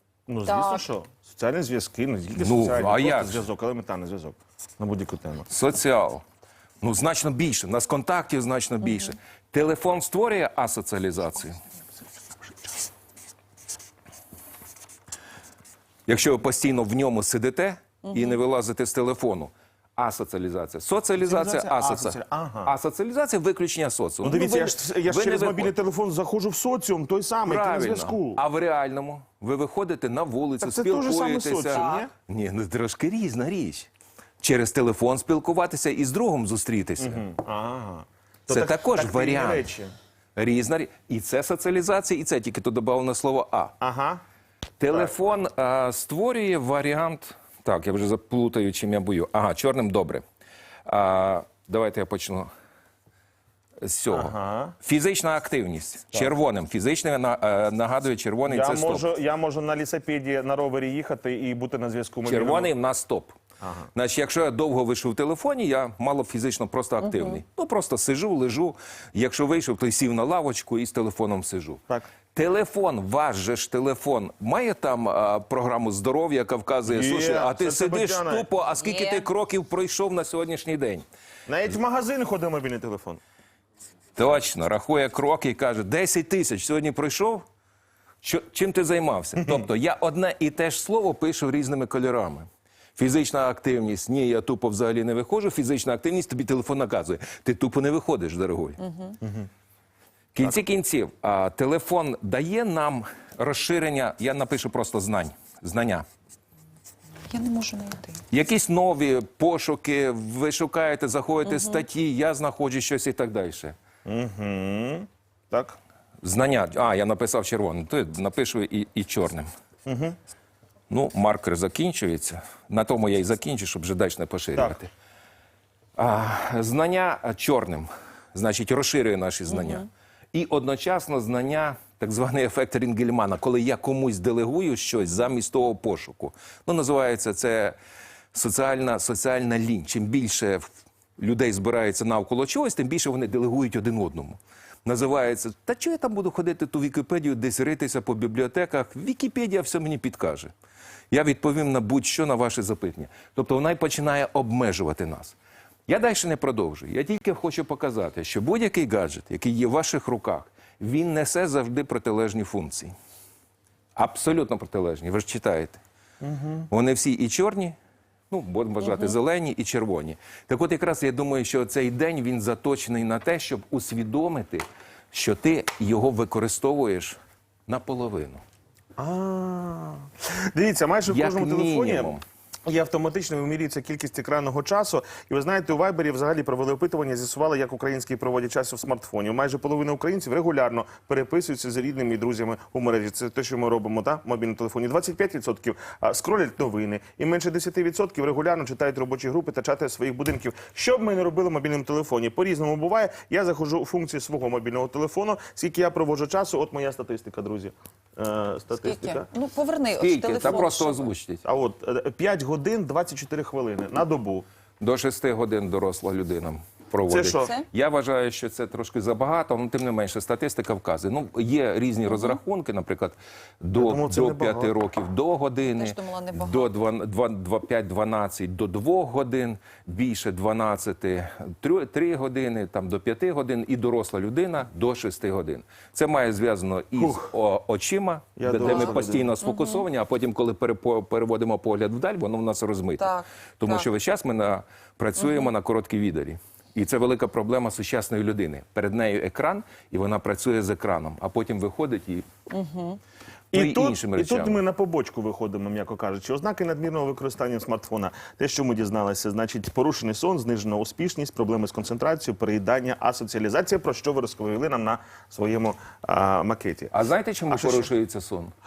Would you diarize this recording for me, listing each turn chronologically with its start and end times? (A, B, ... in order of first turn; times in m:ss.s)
0:00.3-0:05.5 A
0:00.4-0:00.8 B
0:02.4-0:03.4 C
0:05.5-0:06.2 C
0:06.8-0:11.6 C
0:16.1-0:25.7 C
0:18.1-0:18.4 B
0:21.2-0:22.7 A
0:24.2-0:28.4 A
0:27.4-0:33.9 C
0:30.6-0:32.1 A
0:31.7-0:32.0 B
0:34.4-0:37.2 C
0:37.0-0:39.9 A
0:38.5-0:39.7 C
0:40.4-0:43.7 C
0:43.8-0:44.2 A
0:44.8-0:50.2 C
0:44.9-0:45.1 A
0:50.8-0:52.5 C
0:53.8-0:59.1 C
0:54.1-0:54.7 A
0:58.5-1:02.7 A
1:02.2-1:03.4 C
1:03.6-1:03.9 A
1:03.9-1:21.0 C
1:07.0-1:07.4 B
1:16.8-1:18.5 A
1:18.7-1:19.3 B
1:21.5-1:23.2 A
1:24.2-1:27.4 C
1:28.2-1:38.8 C
1:38.8-1:39.2 B
1:39.2-1:39.5 A
1:40.3-1:46.0 C
1:47.3-1:48.2 B
1:48.3-1:53.7 C
1:51.4-1:51.8 B
1:54.0-1:55.8 A
1:56.2-1:59.5 C
1:59.8-2:00.2 A
2:00.9-2:04.9 C
2:06.0-2:17.8 C
2:09.5-2:09.8 B
2:18.3-2:20.7 C
2:21.2-2:30.5 C
2:31.1-2:35.4 C
2:35.9-2:42.9 C
2:44.0-2:45.8 C
2:46.2-2:46.7 A
2:46.7-2:47.8 C
2:48.3-2:58.4 C
2:59.0-3:02.1 A
3:01.1-3:02.2 C
3:02.6-3:29.3 A
3:28.8-3:31.1 B
3:30.0-3:31.4 C
3:31.4-3:34.4 A
3:34.8-4:12.2 C
3:37.1-3:37.5 A
3:37.4-3:37.6 B
3:43.8-3:44.7 A
3:45.6-3:46.7 B
3:57.0-3:57.3 A
3:58.4-3:59.3 A
3:58.6-3:59.8 B
4:03.0-4:03.9 B
4:05.2-4:05.5 B
4:12.5-4:13.0 B
4:13.5-4:14.6 C
4:13.5-4:26.9 A
4:26.9-4:28.5 C
4:27.5-4:27.9 A